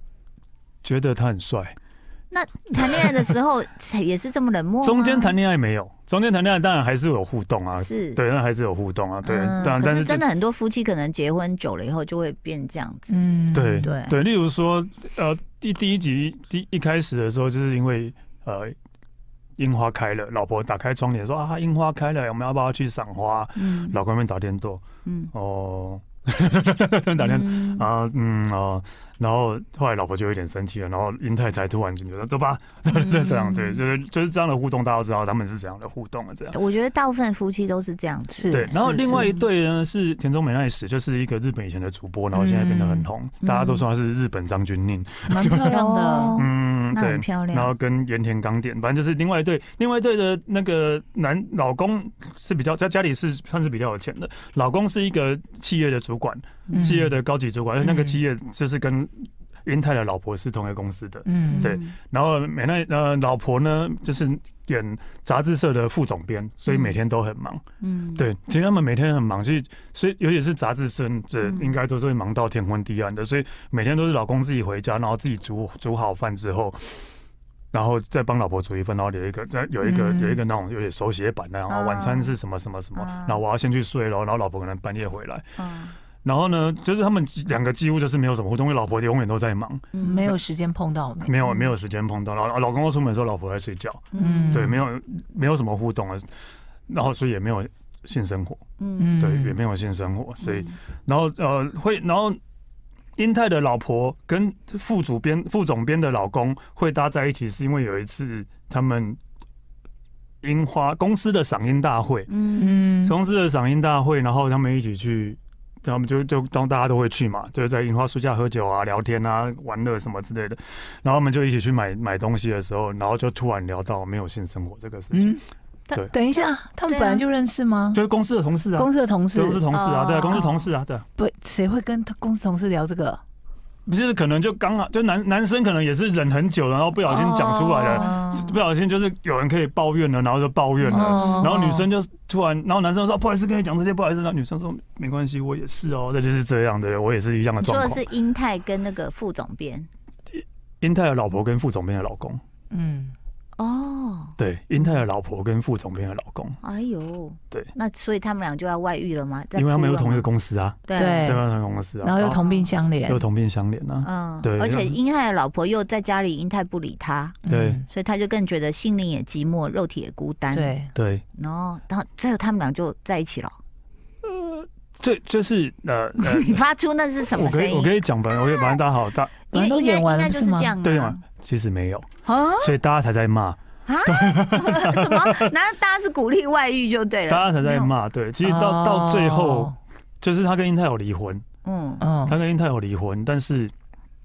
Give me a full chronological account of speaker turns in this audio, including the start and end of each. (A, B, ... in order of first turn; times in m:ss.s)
0:00.8-0:01.8 A
0:02.3-0:05.3 B
0:02.9-0:03.3 A
0:04.8-0:10.2 A
0:07.8-0:08.2 B
0:09.2-0:13.2 B
0:13.1-0:13.9 C
0:13.5-0:18.7 A
0:13.8-0:14.1 B
0:19.6-0:36.5 A
0:23.6-0:24.0 B
0:25.0-0:25.3 B
0:27.2-0:27.9 B
0:32.9-0:33.8 B
0:36.5-0:39.4 B
0:38.3-0:39.3 C
0:38.5-0:45.7 A
0:42.3-0:43.1 C
0:43.4-0:43.8 B
0:45.3-0:46.4 C
0:45.6-0:47.7 B
0:46.4-1:07.6 A
0:56.7-0:56.9 B
0:56.7-0:57.2 C
0:57.8-0:58.2 C
1:01.2-1:01.7 C
1:01.5-1:01.9 B
1:06.7-1:07.0 B
1:07.8-1:08.3 B
1:08.2-1:17.0 A
1:11.4-1:11.8 B
1:17.7-1:25.5 A
1:19.8-1:20.4 B
1:21.7-1:22.4 B
1:23.0-1:23.4 B
1:25.6-1:25.9 B
1:26.2-1:29.9 A
1:29.9-1:30.3 B
1:30.0-1:31.3 C
1:31.2-1:36.3 A
1:31.4-1:31.7 B
1:34.1-1:34.7 B
1:34.2-1:34.8 C
1:36.9-1:38.6 A
1:38.8-1:39.2 B
1:39.0-1:39.6 C
1:39.2-1:42.4 A
1:40.4-1:40.7 B
1:43.2-1:49.2 A
1:50.4-1:52.3 A
1:52.3-1:52.8 B
1:52.6-1:53.2 C
1:53.0-2:05.4 A
2:05.1-2:05.4 C
2:06.1-2:08.0 C
2:06.9-2:07.2 B
2:07.9-2:11.0 A
2:08.8-2:09.7 C
2:09.7-2:10.7 B
2:11.2-2:13.2 C
2:13.8-2:28.0 A
2:17.1-2:18.6 B
2:17.3-2:18.2 C
2:20.8-2:21.9 C
2:21.1-2:21.5 B
2:27.6-2:29.9 B
2:30.3-2:32.4 A
2:32.7-2:33.1 C
2:33.6-2:35.0 B
2:34.4-2:36.6 A
2:36.6-2:40.3 B
2:39.6-2:42.4 A
2:40.9-2:41.4 B
2:41.0-2:41.4 C
2:42.0-2:43.2 C
2:42.2-2:42.7 B
2:43.0-2:45.0 A
2:44.0-2:47.4 B
2:47.4-2:47.8 C
2:47.5-2:47.8 A
2:47.9-2:50.7 B
2:50.5-2:50.9 C
2:50.9-2:51.2 A
2:51.4-2:53.6 B
2:54.2-2:56.6 A
2:56.2-2:58.8 B
2:57.3-2:59.4 A
2:59.5-3:01.2 B
2:59.5-3:00.7 C
3:00.8-3:02.1 A
3:02.2-3:02.7 B
3:02.6-3:05.5 A
3:03.8-3:07.9 B
3:07.3-3:11.4 A
3:08.4-3:09.8 C
3:11.6-3:12.0 B
3:12.0-3:12.4 C
3:12.2-3:13.7 A